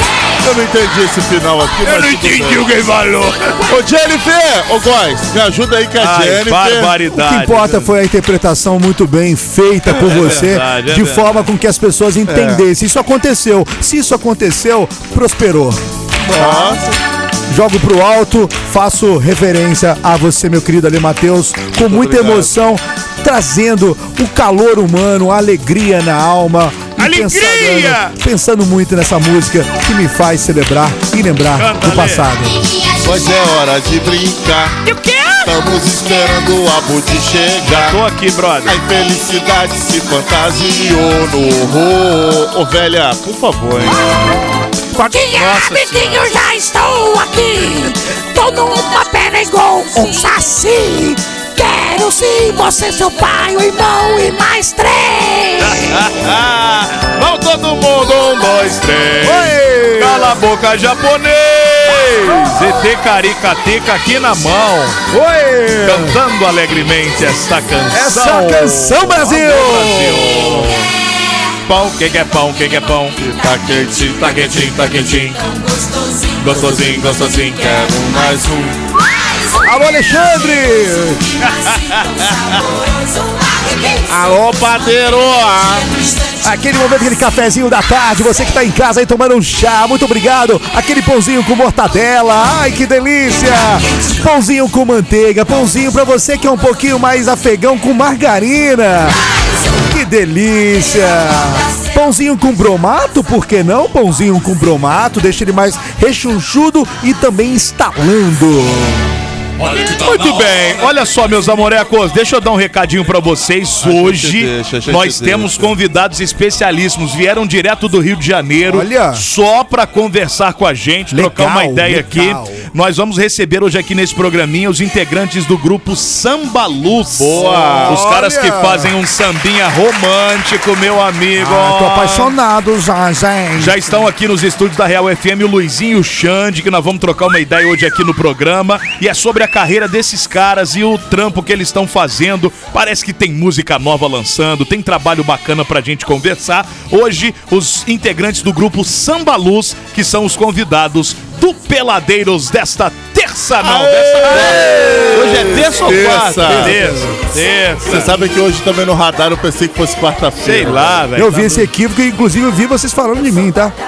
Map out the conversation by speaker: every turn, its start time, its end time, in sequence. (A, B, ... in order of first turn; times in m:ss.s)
0:00.4-0:02.8 A
0:01.8-0:03.7 B
0:03.7-0:07.0 A
0:06.0-0:07.8 B
0:07.1-0:15.8 C
0:09.9-0:11.4 B
0:12.3-0:12.6 A
0:16.2-0:17.0 A
0:16.3-0:16.8 C
0:17.5-0:32.7 C
0:21.8-0:22.5 A
0:27.0-0:28.2 B
0:31.6-0:32.3 B
0:33.0-0:34.8 A
0:34.8-0:36.0 D
0:35.4-0:38.0 A
0:37.6-0:38.8 B
0:38.7-0:44.0 A
0:45.0-0:56.0 D
0:45.0-0:46.3 B
0:55.6-1:05.0 B
0:59.2-1:00.4 C
1:02.3-1:02.7 C
1:05.1-1:06.2 C
1:05.8-1:10.8 B
1:07.9-1:10.7 C
1:11.7-1:13.2 B
1:13.2-1:15.4 A
1:14.2-1:15.4 B
1:16.4-1:17.6 B
1:16.5-1:18.7 A
1:19.6-1:21.3 C
1:21.6-1:22.0 B
1:24.1-1:25.9 A
1:26.4-1:39.2 C
1:39.7-1:49.1 C
1:49.6-2:12.3 B
1:53.8-1:55.7 A
1:58.7-1:59.2 C
2:01.1-2:02.7 C
2:07.1-2:08.0 A
2:07.3-2:08.9 C
2:11.4-2:14.0 C
2:13.6-2:38.2 B
2:33.6-2:37.0 A
2:36.5-2:37.2 C
2:37.9-2:41.0 A
2:40.4-2:41.7 B
2:41.2-2:43.8 C